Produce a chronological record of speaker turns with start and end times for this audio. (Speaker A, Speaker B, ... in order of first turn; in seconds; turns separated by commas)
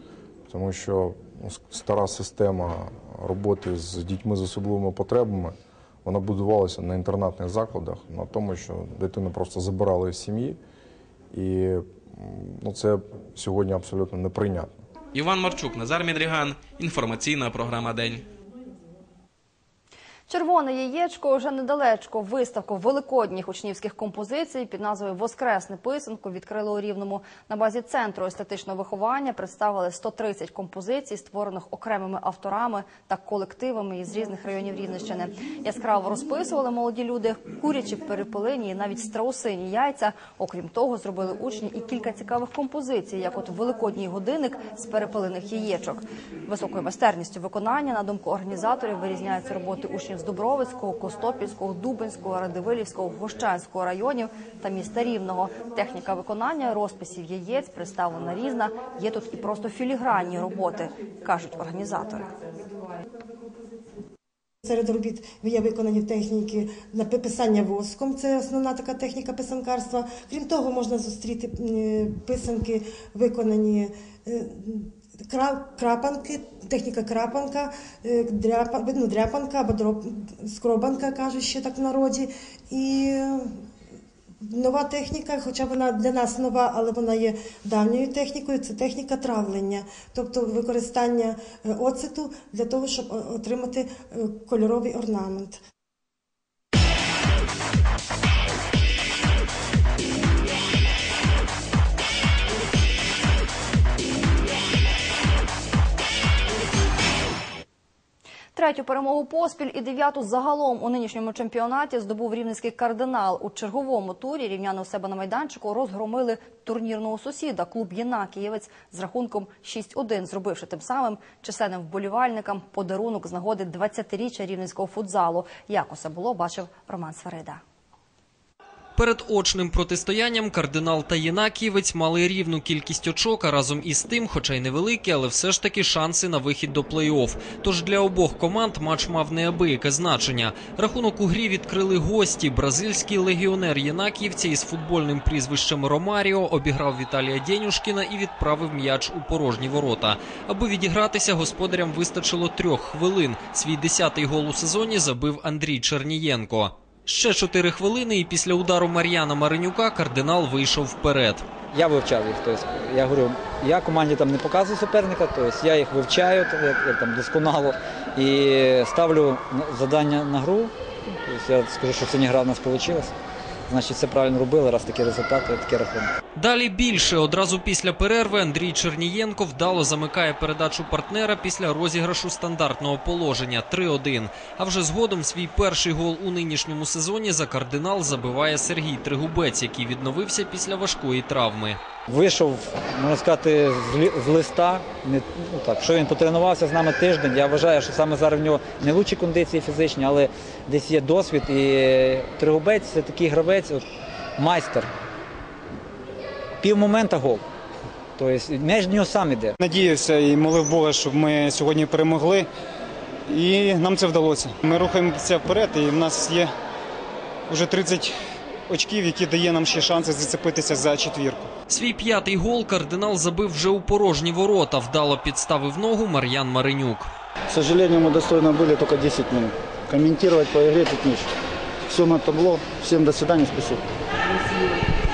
Speaker A: 0.5-10.6, Speaker A: 11.3-14.7, Speaker B: 15.1-18.2, Speaker C: 20.3-62.3, Speaker D: 64.6-83.5, Speaker D: 84.4-95.6, Speaker C: 108.5-127.6, Speaker E: 128.9-161.4, Speaker F: 161.7-170.7, Speaker F: 171.2-173.1, Speaker F: 173.7-176.1, Speaker E: 176.3-191.8, Speaker F: 192.1-203.8, Speaker F: 204.4-204.9, Speaker F: 206.6-207.4, Speaker F: 208.2-209.6, Speaker G: 209.6-212.5, Speaker G: 213.3-216.5, Speaker G: 217.5-218.2, Speaker G: 218.7-221.5, Speaker E: 221.7-227.1, Speaker H: 227.5-231.3, Speaker H: 231.9-233.8